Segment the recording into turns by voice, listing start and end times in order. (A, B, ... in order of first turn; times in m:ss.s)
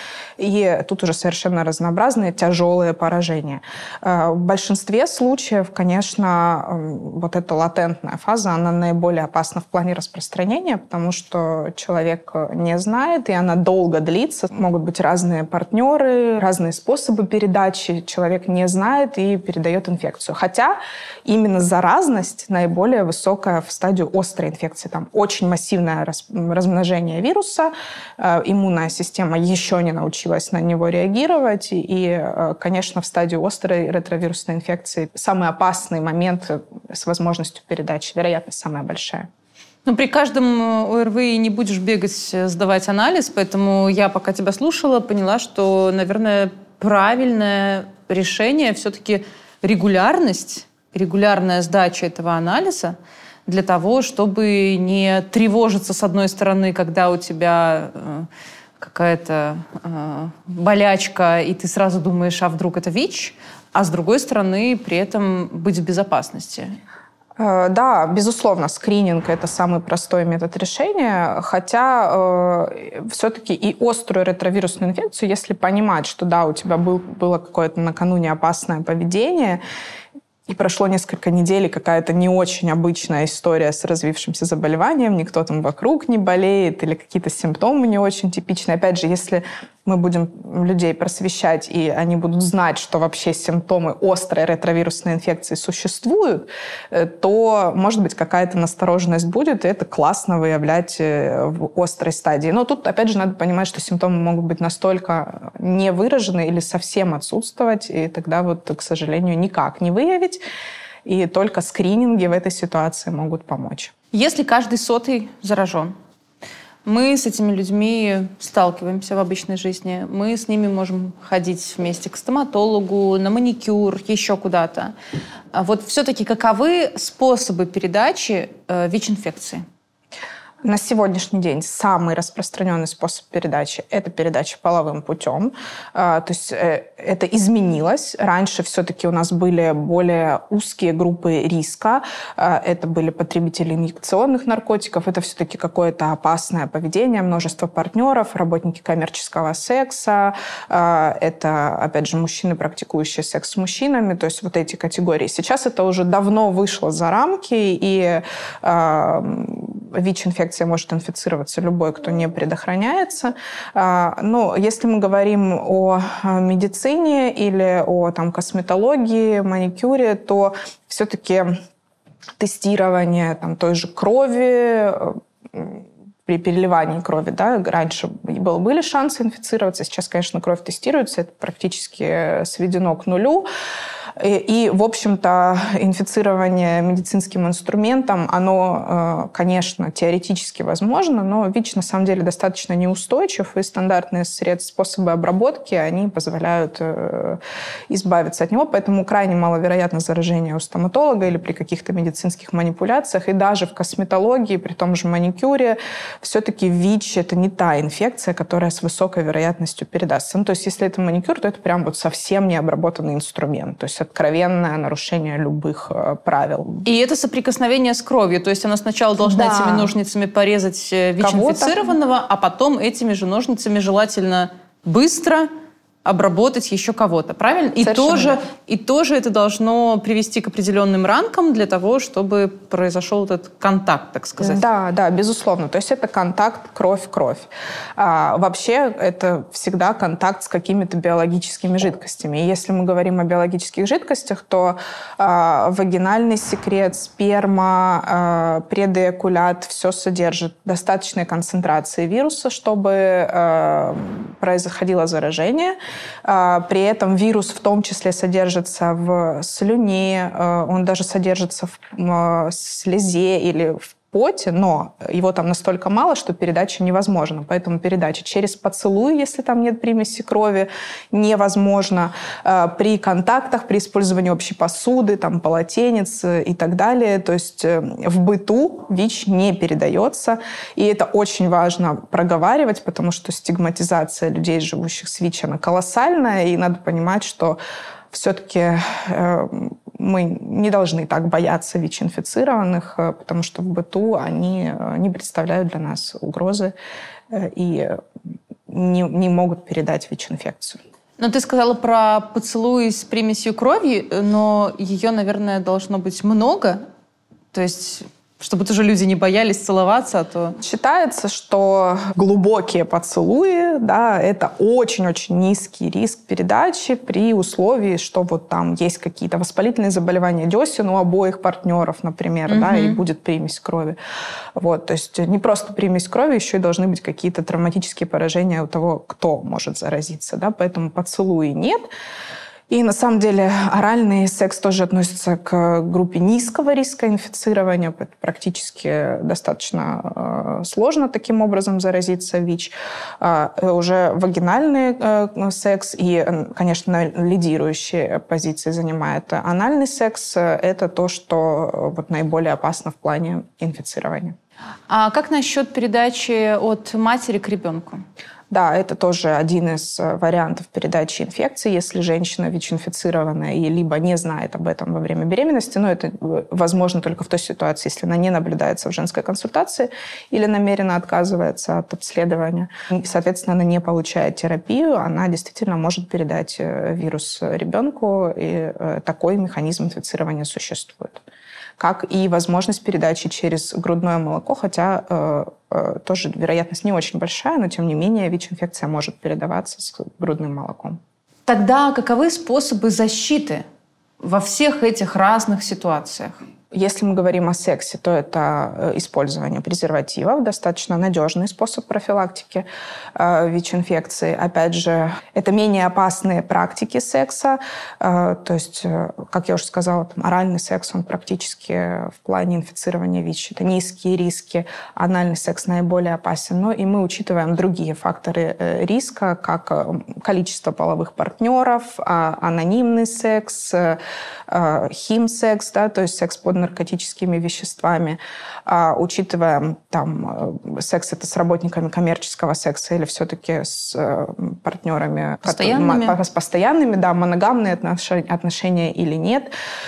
0:00.4-0:39.3 A
0:39.8-0:58.3 B
0:58.8-1:06.8 B
1:07.4-1:19.6 A
1:20.5-1:50.4 A
1:51.0-1:53.9 A
1:54.1-1:55.9 B
1:56.8-2:04.9 B
2:05.5-2:09.6 B
2:10.6-2:51.5 A
2:52.4-3:03.5 A
3:04.2-3:36.9 A
3:36.8-3:45.5 B
3:39.2-3:39.9 A
3:41.2-3:41.8 A
3:46.0-3:54.6 B
3:47.8-3:48.4 A
3:54.4-4:47.6 A
4:48.1-4:56.7 A
4:57.3-4:58.0 A
4:58.7-5:00.8 A
5:01.2-5:06.8 B
5:07.5-5:10.6 B
5:10.6-5:24.0 A
5:22.5-5:23.0 B
5:24.6-5:31.8 A
5:32.7-5:54.4 A
5:54.9-5:58.0 B
5:58.5-6:21.2 A
6:21.8-6:31.0 A
6:31.5-6:33.6 B
6:34.2-6:36.4 B
6:36.7-7:19.5 A
7:15.4-7:16.2 B